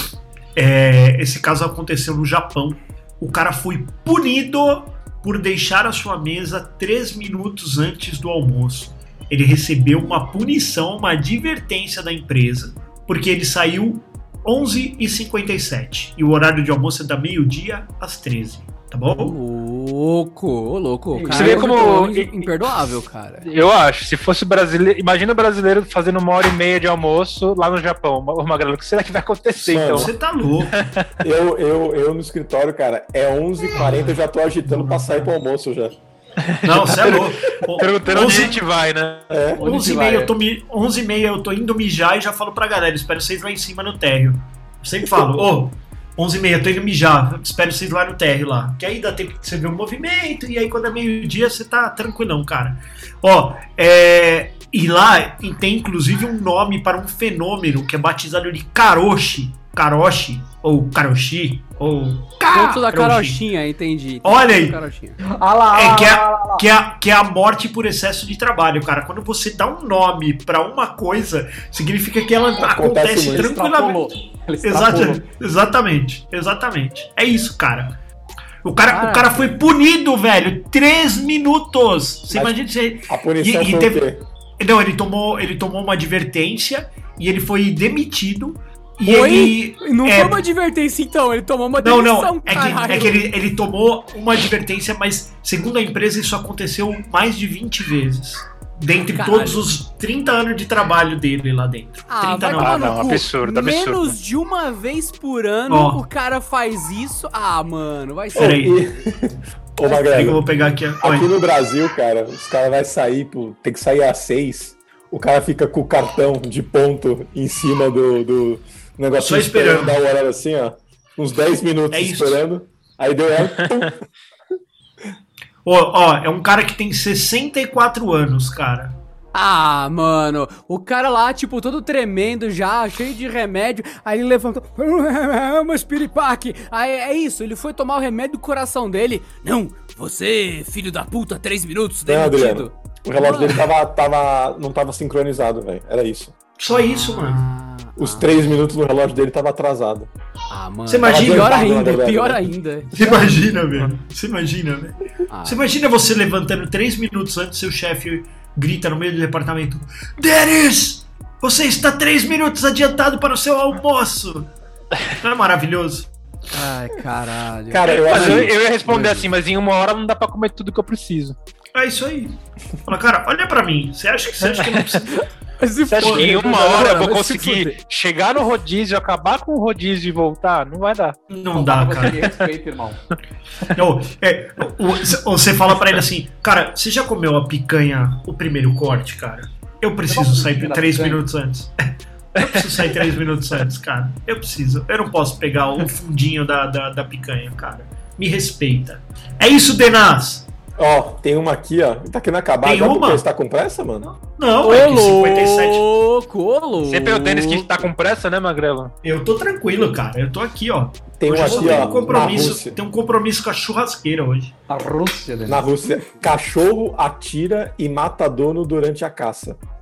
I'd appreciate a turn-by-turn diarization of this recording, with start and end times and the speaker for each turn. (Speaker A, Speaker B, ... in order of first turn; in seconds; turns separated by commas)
Speaker A: 0.5-19.4, Speaker B: 19.1-23.5, Speaker C: 21.1-21.9, Speaker D: 21.3-22.7, Speaker D: 23.4-30.1, Speaker A: 29.6-30.8, Speaker E: 29.6-30.1, Speaker D: 30.7-31.1, Speaker E: 31.2-35.9, Speaker A: 34.8-35.0, Speaker D: 36.4-39.4, Speaker A: 36.6-38.6, Speaker E: 39.3-39.6, Speaker C: 39.5-40.3, Speaker A: 39.6-63.4, Speaker B: 62.5-65.2, Speaker A: 64.2-64.8, Speaker C: 65.2-66.6, Speaker A: 65.7-74.1, Speaker E: 72.6-73.5, Speaker C: 73.2-75.3, Speaker A: 74.6-78.0, Speaker A: 78.6-84.1, Speaker B: 78.9-79.6, Speaker E: 82.3-84.2, Speaker A: 84.6-90.4, Speaker B: 89.0-93.2, Speaker A: 91.8-103.0, Speaker B: 99.0-99.7, Speaker B: 102.1-108.7, Speaker D: 102.5-104.2, Speaker A: 105.7-106.0, Speaker A: 108.3-108.8, Speaker E: 108.3-110.4, Speaker A: 109.8-111.3, Speaker E: 111.0-124.0, Speaker A: 119.2-119.9, Speaker A: 121.9-122.4, Speaker A: 125.6-129.0, Speaker B: 129.3-143.7, Speaker E: 142.1-146.3, Speaker A: 146.6-147.4, Speaker B: 146.7-148.4, Speaker E: 147.9-150.1, Speaker B: 150.5-153.4, Speaker A: 150.9-151.8, Speaker E: 151.0-152.5, Speaker A: 152.9-164.5, Speaker B: 155.3-155.6, Speaker A: 165.1-166.1, Speaker B: 166.5-169.3, Speaker E: 167.7-168.6, Speaker D: 168.0-171.3, Speaker A: 171.7-175.2, Speaker B: 175.1-177.8, Speaker D: 175.9-181.2, Speaker A: 176.0-176.4, Speaker A: 181.3-182.3, Speaker C: 181.5-183.0, Speaker A: 183.7-200.4, Speaker C: 190.1-191.2, Speaker E: 200.8-204.1, Speaker A: 202.6-203.2, Speaker A: 204.0-205.9, Speaker B: 204.6-207.8, Speaker D: 206.8-208.9, Speaker A: 209.0-214.6, Speaker E: 211.2-212.8, Speaker C: 211.4-212.4, Speaker C: 214.7-215.7, Speaker E: 215.5-219.6